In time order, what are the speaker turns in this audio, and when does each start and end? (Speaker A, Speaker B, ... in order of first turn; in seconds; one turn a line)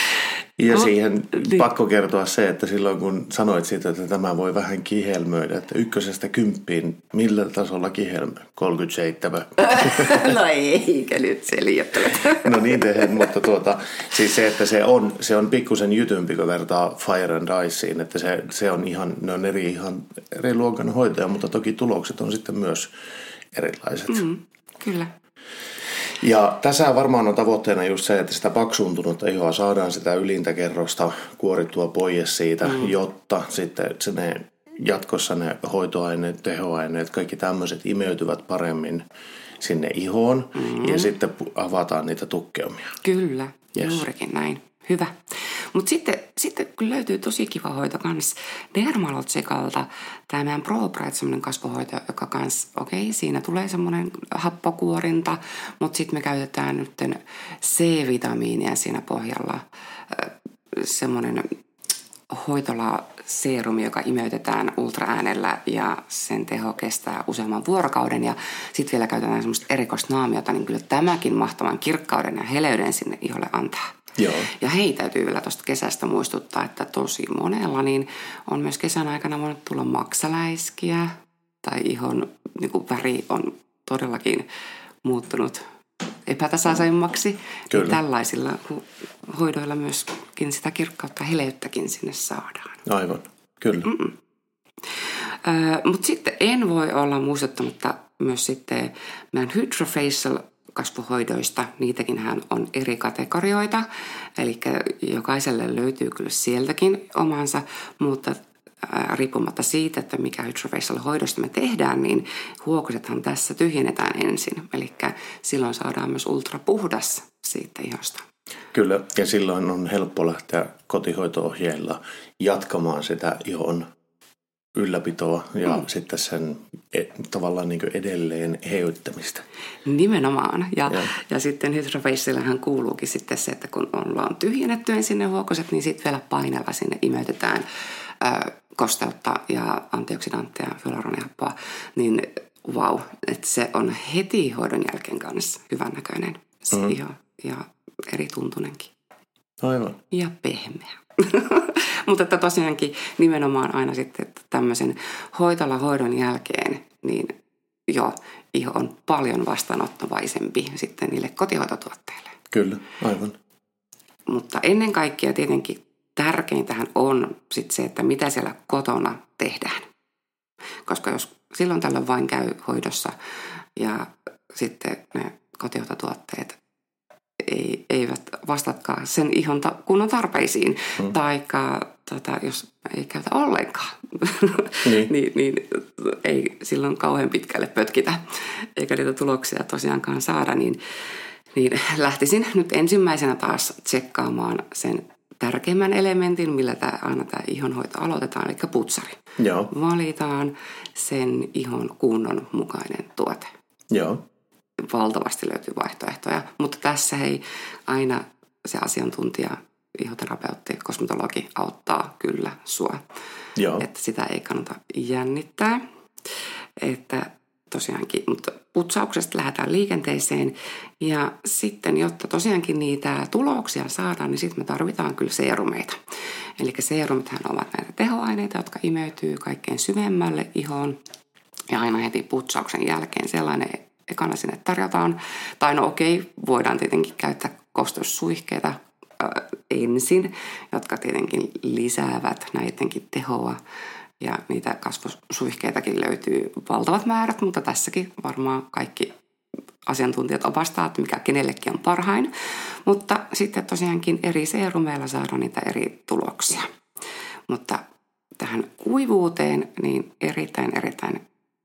Speaker A: 0.6-10.3
Speaker B: 0.7-1.6
Speaker B: 9.6-13.2
Speaker A: 12.2-22.9
Speaker A: 23.5-24.2
Speaker B: 24.1-25.1
Speaker A: 26.2-39.0
Speaker B: 32.6-32.9
Speaker A: 39.6-43.0
Speaker B: 40.5-41.1
Speaker B: 43.0-61.5
Speaker A: 43.8-44.0
Speaker B: 62.3-73.9
Speaker A: 74.2-74.5
Speaker B: 74.5-84.5
Speaker B: 85.0-85.6
Speaker B: 86.2-92.8
Speaker A: 87.7-88.0
Speaker A: 92.8-93.9
Speaker B: 93.8-94.1
Speaker B: 95.4-118.3
Speaker A: 118.7-123.9
Speaker A: 124.7-129.4
Speaker B: 129.8-137.7
Speaker B: 138.2-148.9
Speaker A: 149.6-150.0
Speaker B: 150.1-157.3
Speaker B: 157.9-162.3
Speaker A: 162.5-163.3
Speaker B: 164.3-169.9
Speaker B: 170.8-173.1
Speaker B: 173.7-176.6
Speaker B: 177.4-190.8
Speaker A: 184.8-185.1
Speaker B: 191.5-199.2
Speaker A: 199.4-199.7
Speaker B: 199.7-203.5
Speaker A: 203.9-204.2
Speaker B: 204.8-213.0
Speaker A: 213.6-213.8
Speaker B: 213.8-215.8
Speaker B: 216.8-226.0
Speaker B: 226.6-231.0
Speaker B: 231.7-243.6
Speaker B: 244.2-249.1
Speaker B: 249.8-256.7
Speaker B: 257.5-257.8
Speaker B: 258.4-261.2